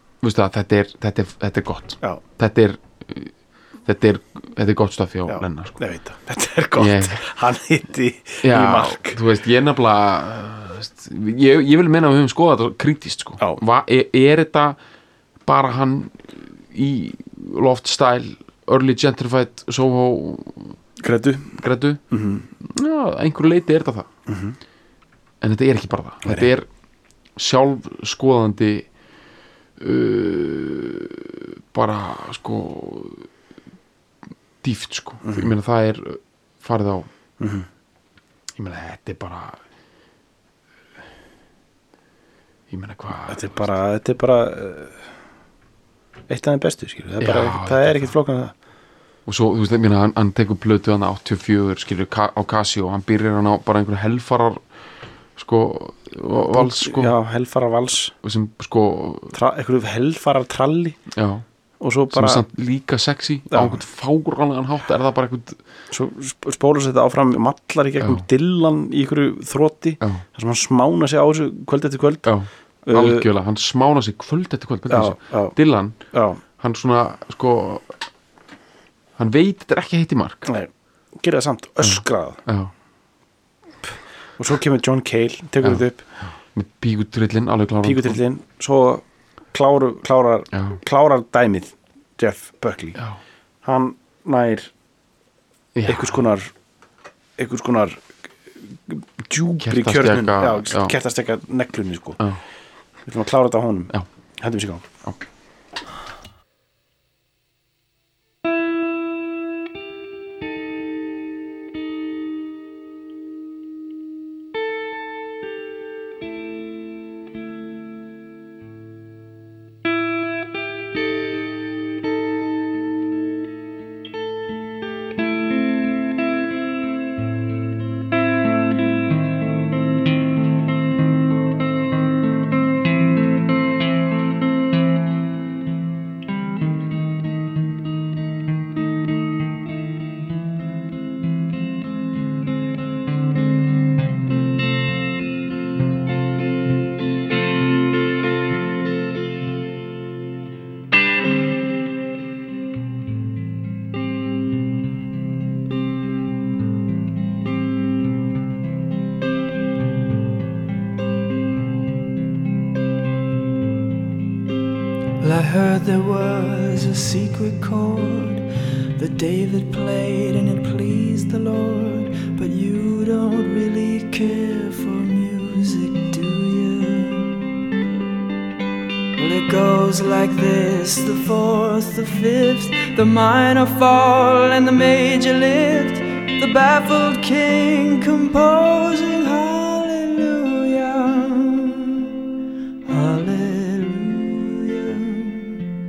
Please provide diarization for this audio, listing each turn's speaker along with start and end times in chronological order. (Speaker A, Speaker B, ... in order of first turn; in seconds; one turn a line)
Speaker A: 0.2-5.8
Speaker B: 5.3-9.2
Speaker A: 6.8-7.2
Speaker A: 8.4-14.8
Speaker A: 15.5-20.8
Speaker B: 21.0-22.5
Speaker A: 21.6-24.1
Speaker B: 24.3-24.6
Speaker A: 25.4-26.7
Speaker A: 27.4-28.9
Speaker A: 29.8-33.3
Speaker A: 34.6-37.1
Speaker B: 35.2-35.5
Speaker B: 37.4-37.7
Speaker A: 38.6-39.6
Speaker A: 42.7-43.7
Speaker B: 43.3-45.1
Speaker B: 46.3-48.5
Speaker A: 47.2-48.1
Speaker A: 49.3-54.6
Speaker A: 55.4-57.1
Speaker B: 56.4-58.1
Speaker A: 58.2-59.4
Speaker B: 59.3-61.0
Speaker A: 61.1-61.5
Speaker B: 61.8-62.4
Speaker A: 62.1-65.6
Speaker B: 63.5-63.8
Speaker B: 65.9-72.3
Speaker A: 68.0-68.3
Speaker A: 72.2-76.0
Speaker B: 72.8-73.3
Speaker B: 74.9-76.4
Speaker A: 76.5-78.0
Speaker A: 79.2-80.5
Speaker B: 80.5-82.4
Speaker A: 81.8-82.7
Speaker B: 83.8-86.0
Speaker A: 85.6-88.2
Speaker B: 87.8-93.0
Speaker A: 90.5-90.8
Speaker B: 93.6-94.7
Speaker A: 95.7-96.2
Speaker B: 95.9-96.5
Speaker B: 97.4-102.2
Speaker A: 99.6-100.9
Speaker B: 103.0-104.9
Speaker C: 165.2-177.4
Speaker C: 179.2-192.2
Speaker C: 192.8-195.7